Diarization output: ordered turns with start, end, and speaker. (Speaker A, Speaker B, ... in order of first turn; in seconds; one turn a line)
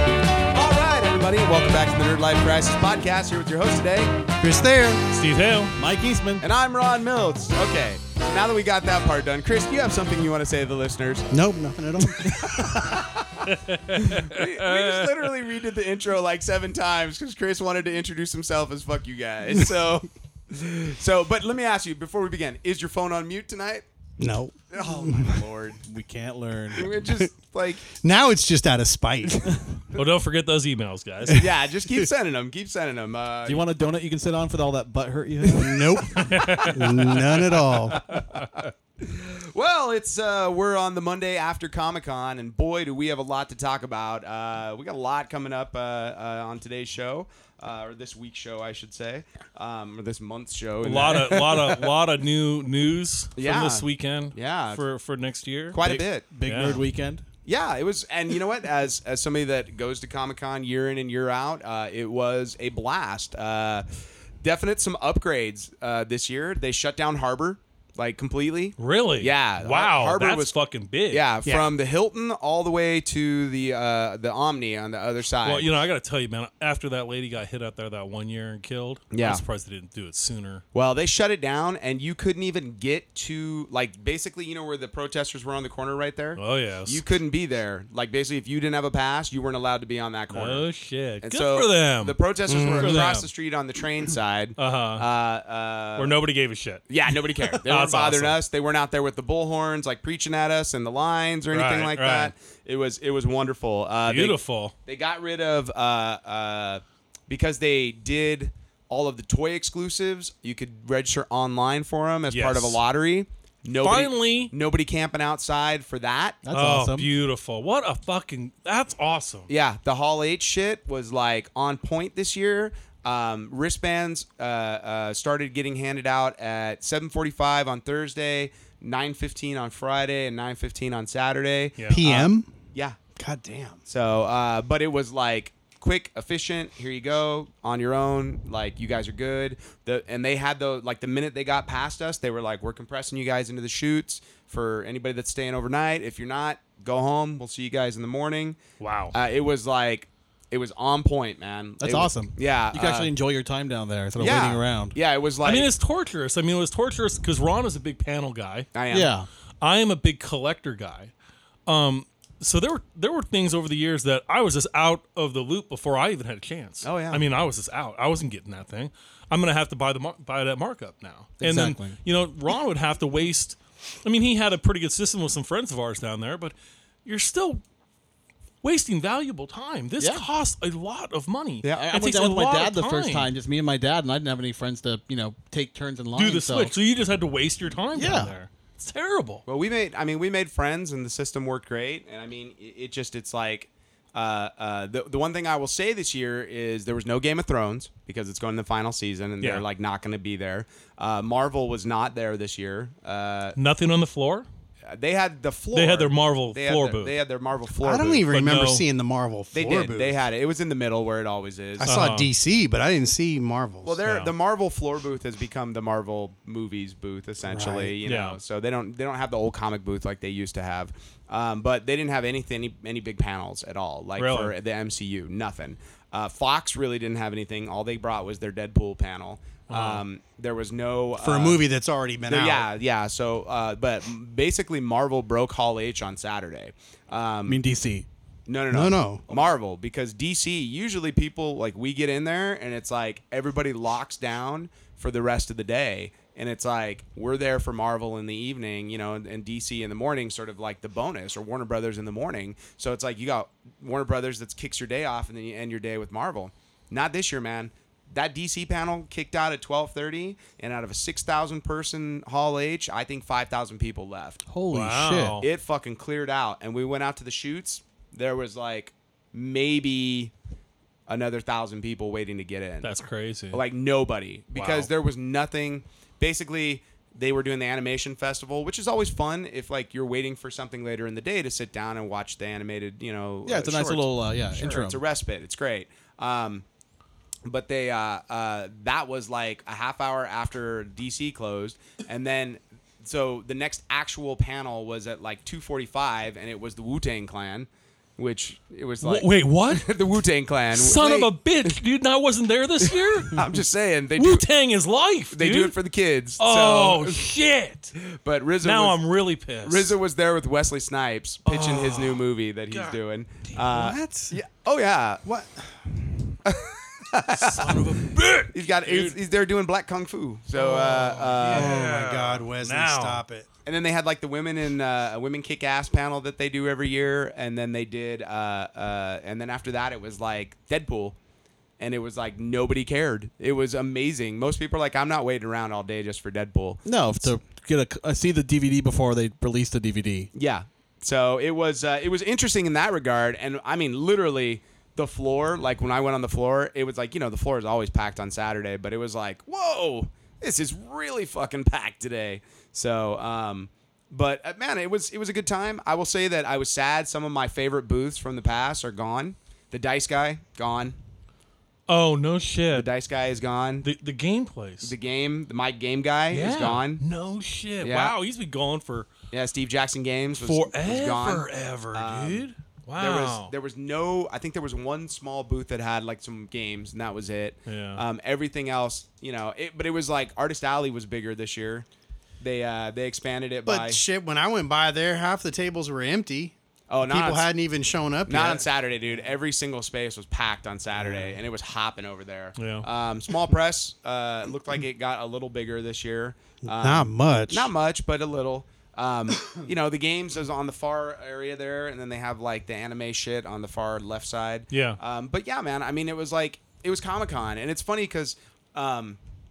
Speaker A: 0.5-4.2
Speaker B: 4.4-5.0
Speaker C: 5.1-5.7
Speaker D: 5.7-6.5
Speaker A: 6.4-11.3
Speaker B: 11.3-13.1
Speaker A: 12.2-23.8
Speaker C: 13.4-15.2
Speaker B: 24.2-25.4
Speaker A: 24.7-25.8
Speaker D: 25.8-26.9
Speaker A: 26.7-27.9
Speaker B: 27.9-29.6
Speaker C: 29.9-31.4
Speaker A: 31.3-33.6
Speaker D: 33.5-36.2
Speaker B: 35.6-38.0
Speaker C: 36.3-37.6
Speaker A: 37.9-51.9
Speaker C: 50.8-55.8
Speaker A: 53.4-54.8
Speaker A: 55.7-56.8
Speaker D: 55.8-57.2
Speaker C: 56.4-56.8
Speaker A: 57.4-63.9
Speaker A: 64.4-70.5
Speaker C: 68.8-71.2
Speaker A: 71.1-75.7
Speaker C: 75.4-80.6
Speaker A: 79.1-79.4
Speaker A: 80.7-90.6
Speaker C: 86.4-87.0
Speaker C: 90.3-93.3
Speaker A: 91.2-96.2
Speaker B: 92.5-93.1
Speaker C: 94.6-95.0
Speaker C: 96.0-96.9
Speaker A: 96.9-116.4
Speaker C: 97.4-98.4
Speaker C: 101.5-102.3
Speaker C: 104.0-104.7
Speaker C: 112.3-112.8
Speaker C: 113.8-114.5
Speaker D: 116.4-117.1
Speaker C: 116.5-119.5
Speaker A: 119.5-133.0
Speaker B: 131.9-132.5
Speaker B: 133.2-133.8
Speaker A: 133.9-148.6
Speaker C: 148.8-149.1
Speaker A: 149.1-153.1
Speaker D: 151.8-154.9
Speaker A: 154.2-155.7
Speaker C: 155.4-158.7
Speaker A: 158.7-159.1
Speaker D: 158.9-159.3
Speaker C: 159.6-161.1
Speaker C: 161.7-177.6
Speaker A: 166.8-167.2
Speaker D: 171.4-172.0
Speaker C: 178.6-183.3
Speaker D: 180.0-180.2
Speaker D: 181.8-186.7
Speaker C: 186.1-189.4
Speaker D: 187.9-188.3
Speaker A: 189.5-203.6
Speaker C: 203.6-204.5
Speaker A: 204.9-208.3
Speaker C: 205.7-207.2
Speaker B: 207.8-210.2
Speaker C: 208.3-208.8
Speaker A: 209.5-212.0
Speaker B: 211.8-214.0
Speaker C: 211.8-212.3
Speaker A: 213.8-231.6
Speaker C: 214.1-214.3
Speaker B: 217.4-217.9
Speaker C: 218.1-218.4
Speaker C: 224.2-224.5
Speaker C: 229.7-230.0
Speaker B: 231.2-232.7
Speaker A: 232.3-237.6
Speaker D: 237.4-238.1
Speaker A: 238.5-264.4
Speaker B: 238.7-239.3
Speaker D: 264.5-265.4
Speaker C: 264.7-265.4
Speaker A: 265.4-270.3
Speaker A: 271.1-272.9
Speaker C: 272.8-273.6
Speaker A: 273.5-286.6
Speaker C: 274.6-274.9
Speaker D: 283.4-285.0
Speaker A: 287.4-301.8
Speaker C: 299.0-299.9
Speaker C: 300.7-303.4
Speaker A: 302.9-304.4
Speaker C: 304.1-305.8
Speaker A: 305.3-307.3
Speaker C: 306.4-307.9
Speaker A: 308.0-309.0
Speaker C: 308.6-309.9
Speaker A: 309.6-315.3
Speaker C: 311.4-314.2
Speaker B: 313.8-314.3
Speaker B: 315.2-315.7
Speaker A: 316.4-321.7
Speaker C: 317.2-319.2
Speaker C: 320.6-323.2
Speaker B: 321.4-323.5
Speaker A: 323.7-331.2
Speaker A: 331.8-337.3
Speaker D: 336.9-340.3
Speaker A: 340.3-361.0
Speaker C: 361.9-362.9
Speaker A: 362.7-363.9
Speaker C: 363.8-364.9
Speaker A: 364.8-367.0
Speaker C: 366.3-369.1
Speaker A: 367.8-368.1
Speaker A: 369.3-381.9
Speaker C: 370.4-373.5
Speaker C: 377.7-378.0
Speaker A: 382.4-384.0
Speaker B: 383.7-388.7
Speaker A: 386.9-387.5
Speaker A: 388.3-409.2
Speaker B: 391.0-391.3
Speaker C: 392.6-392.9
Speaker B: 396.6-397.7
Speaker C: 404.7-405.0